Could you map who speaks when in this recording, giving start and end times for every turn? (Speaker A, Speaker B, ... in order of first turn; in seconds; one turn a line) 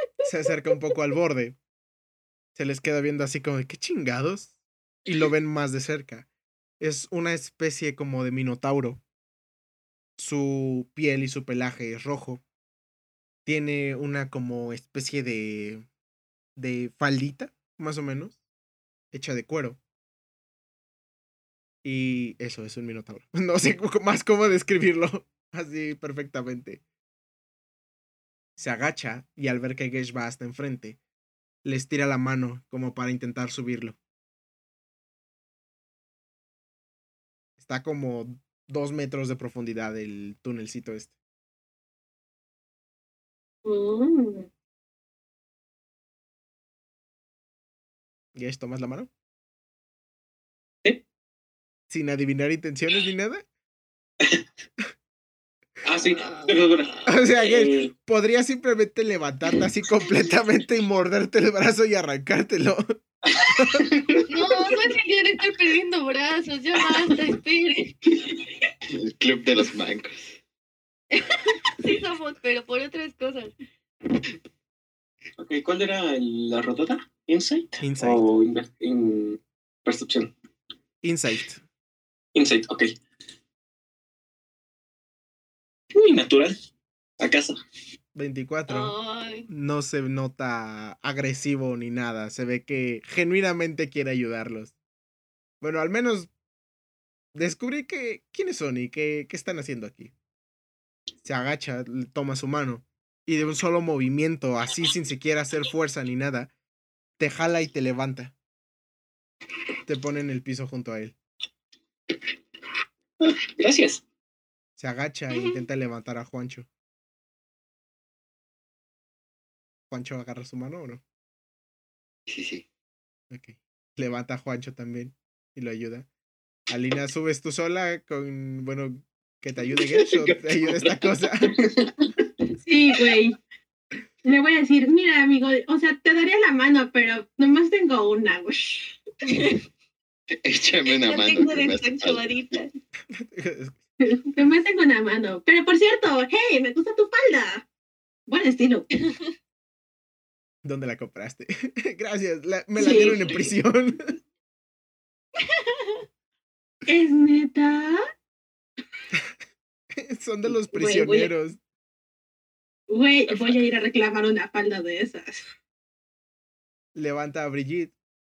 Speaker A: 0.2-1.6
Speaker A: 2.5-4.5
Speaker A: 5.0-6.2
Speaker A: 6.8-9.0
Speaker A: 10.2-12.4
Speaker A: 13.4-15.8
Speaker A: 16.6-18.4
Speaker A: 19.1-19.8
Speaker A: 21.8-26.8
Speaker A: 28.6-31.0
Speaker A: 31.6-34.0
Speaker A: 37.6-41.1
Speaker B: 43.6-44.5
Speaker A: 48.3-49.1
Speaker A: 51.9-53.4
Speaker C: 55.8-57.9
Speaker A: 57.0-63.9
Speaker C: 63.8-64.1
Speaker D: 64.3-67.9
Speaker E: 68.9-70.4
Speaker D: 71.1-73.5
Speaker C: 75.4-80.3
Speaker A: 77.8-78.3
Speaker A: 81.0-81.6
Speaker C: 82.3-82.9
Speaker C: 86.0-86.5
Speaker C: 87.2-87.6
Speaker A: 88.1-89.0
Speaker D: 88.7-89.5
Speaker A: 89.5-94.7
Speaker A: 95.6-96.3
Speaker A: 97.3-100.1
Speaker A: 101.2-106.5
Speaker A: 107.2-108.3
Speaker A: 109.8-111.2
Speaker C: 113.2-114.0
Speaker A: 114.8-116.7
Speaker D: 115.3-115.6
Speaker A: 119.9-121.0
Speaker E: 122.3-122.7
Speaker A: 123.3-126.1
Speaker A: 126.7-131.5
Speaker E: 129.7-131.2
Speaker B: 132.6-133.4
Speaker B: 134.2-139.0
Speaker D: 139.2-139.6
Speaker E: 140.3-142.6
Speaker D: 140.8-142.7
Speaker A: 143.1-143.8
Speaker B: 144.0-147.7
Speaker B: 148.3-148.9
Speaker D: 148.9-149.3
Speaker A: 150.6-154.2
Speaker B: 152.8-153.3
Speaker D: 152.8-153.2
Speaker D: 155.4-156.0
Speaker B: 156.9-158.0
Speaker A: 160.0-161.6
Speaker B: 160.7-161.3
Speaker B: 162.9-165.4
Speaker A: 166.9-167.9